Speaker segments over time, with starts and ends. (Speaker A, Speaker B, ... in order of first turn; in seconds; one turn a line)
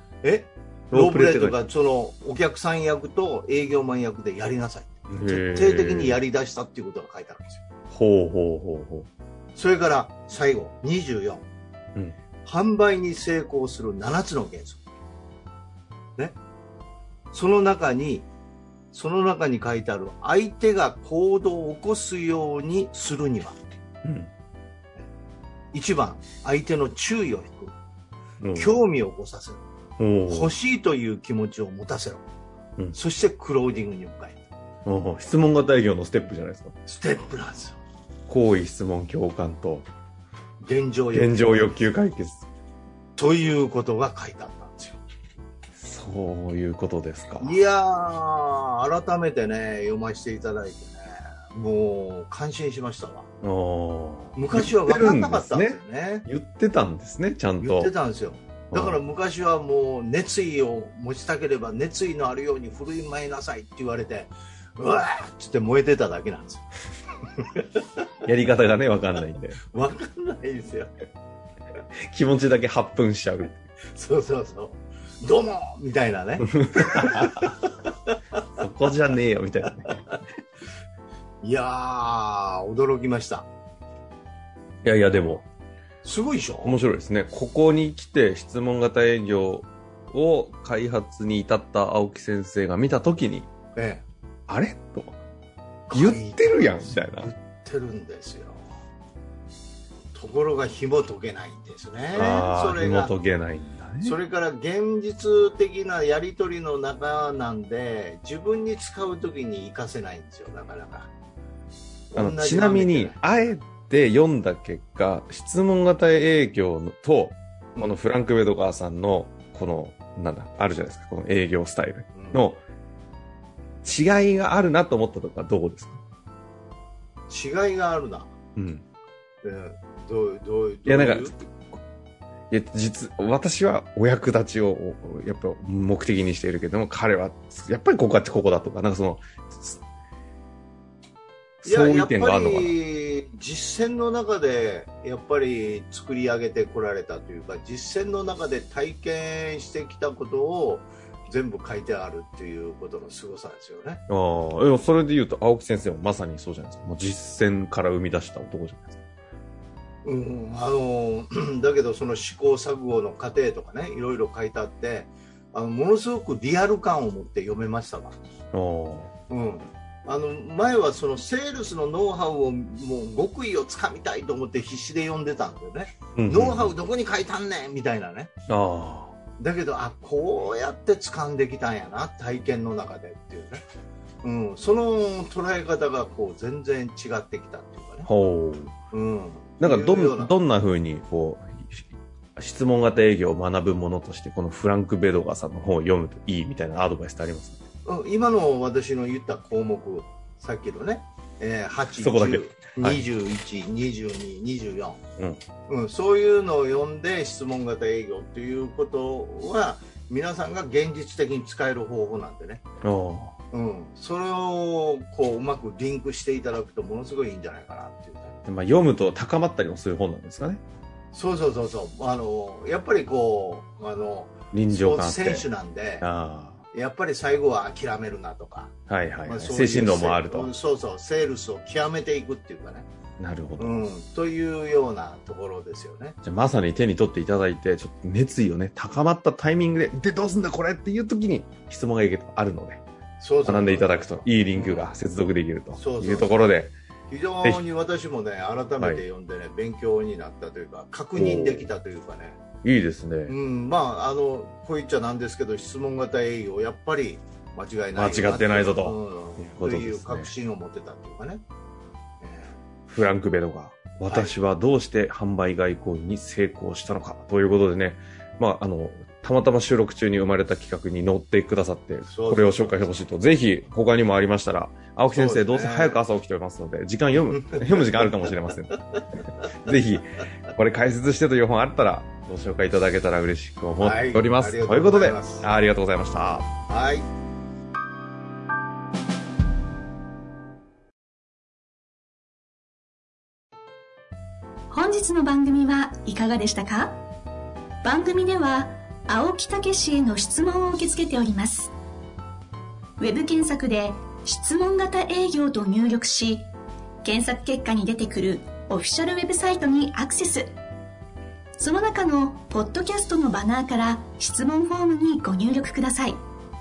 Speaker A: 0.2-7.6
Speaker B: 0.9-1.6
Speaker B: 5.1-6.2
Speaker B: 7.9-9.1
Speaker A: 9.5-11.4
Speaker A: 12.4-14.8
Speaker A: 17.3-18.3
Speaker A: 18.9-23.6
Speaker B: 24.0-24.3
Speaker A: 25.7-27.8
Speaker B: 28.4-28.8
Speaker A: 28.5-29.6
Speaker B: 30.0-30.6
Speaker A: 30.3-32.2
Speaker A: 32.9-34.4
Speaker B: 34.8-36.7
Speaker A: 36.9-37.8
Speaker B: 38.3-39.9
Speaker A: 40.6-41.7
Speaker B: 41.1-42.5
Speaker A: 43.1-45.0
Speaker B: 45.8-47.6
Speaker A: 47.4-53.3
Speaker B: 53.4-57.9
Speaker A: 54.4-56.2
Speaker A: 57.6-66.6
Speaker B: 58.7-59.0
Speaker B: 68.2-69.6
Speaker A: 69.7-70.9
Speaker B: 72.1-73.6
Speaker A: 73.9-77.7
Speaker B: 76.4-77.5
Speaker B: 78.6-80.0
Speaker A: 81.4-83.5
Speaker B: 84.8-85.4
Speaker A: 86.0-86.8
Speaker B: 86.6-93.5
Speaker A: 93.7-94.0
Speaker B: 94.5-95.2
Speaker A: 95.9-98.6
Speaker B: 95.9-97.3
Speaker A: 100.1-103.1
Speaker B: 102.1-104.2
Speaker A: 104.0-111.1
Speaker A: 112.1-113.5
Speaker B: 112.2-122.6
Speaker A: 122.1-122.5
Speaker B: 123.8-126.0
Speaker A: 127.3-128.3
Speaker B: 128.6-128.8
Speaker A: 129.4-131.3
Speaker B: 130.8-131.5
Speaker B: 132.5-139.8
Speaker B: 141.6-142.8
Speaker A: 141.6-154.0
Speaker B: 154.1-159.0
Speaker A: 160.0-168.1
Speaker B: 168.5-169.1
Speaker A: 169.3-178.3
Speaker B: 176.2-176.7
Speaker B: 178.5-179.2
Speaker A: 179.4-183.6
Speaker A: 184.2-188.1
Speaker B: 188.1-188.7
Speaker A: 188.9-190.3
Speaker B: 189.6-191.8
Speaker B: 192.3-197.6
Speaker A: 197.8-205.0
Speaker B: 202.0-203.0
Speaker A: 205.7-212.6
Speaker B: 212.8-213.3
Speaker A: 213.5-218.3
Speaker B: 218.4-220.6
Speaker A: 221.1-226.1
Speaker B: 224.5-225.4
Speaker B: 226.0-226.6
Speaker A: 226.7-228.7
Speaker B: 228.9-230.5
Speaker A: 229.2-232.9
Speaker B: 233.2-233.8
Speaker A: 233.6-236.2
Speaker B: 236.2-242.8
Speaker A: 243.2-244.9
Speaker B: 243.4-246.7
Speaker A: 245.8-246.3
Speaker A: 247.1-252.4
Speaker B: 251.1-251.7
Speaker B: 252.6-253.3
Speaker A: 253.3-261.4
Speaker B: 257.9-260.3
Speaker A: 262.2-262.6
Speaker B: 262.9-278.8
Speaker A: 264.1-264.3
Speaker A: 272.1-272.9
Speaker A: 275.1-276.0
Speaker A: 277.2-278.3
Speaker B: 279.6-286.5
Speaker A: 283.8-285.5
Speaker A: 286.7-287.1
Speaker C: 294.7-297.0
Speaker C: 297.8-301.7
Speaker C: 303.0-306.5
Speaker C: 307.0-310.6
Speaker C: 311.6-316.2